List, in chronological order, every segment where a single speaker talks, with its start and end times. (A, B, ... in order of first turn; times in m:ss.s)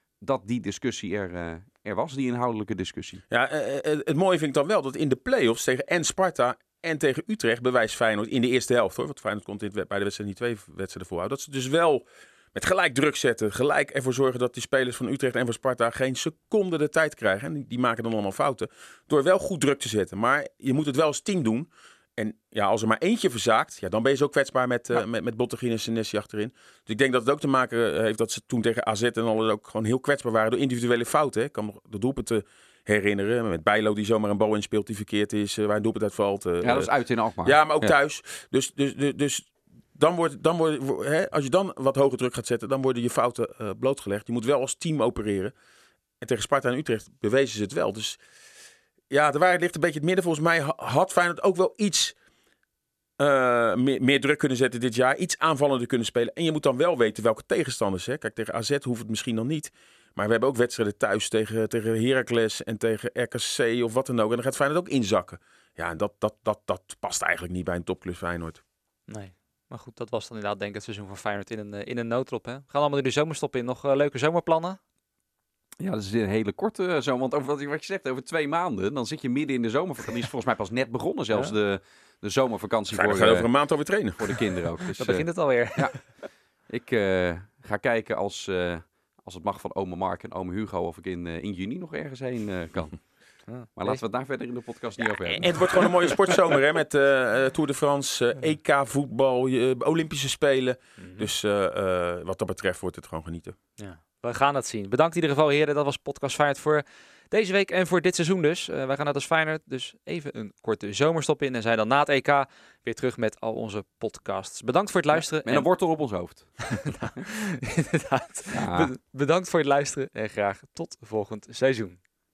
0:00.2-0:03.2 A
0:03.3-0:45.5 B
0:36.6-0:37.9 A
0:46.2-0:48.2 B
0:49.1-0:52.2 B
0:53.2-1:08.6 B
1:09.1-1:14.8 C
1:15.8-1:23.5 A
1:22.9-1:24.4 B
1:24.2-1:26.1 A
1:25.0-1:26.1 C
1:26.7-1:33.0 A
1:33.5-1:34.0 C
1:33.8-1:36.3 A
1:35.2-1:43.6 B
1:41.0-1:41.3 C
1:43.8-1:55.7 C
1:55.2-1:56.9 A
1:56.6-2:02.0 C
1:58.5-1:58.9 A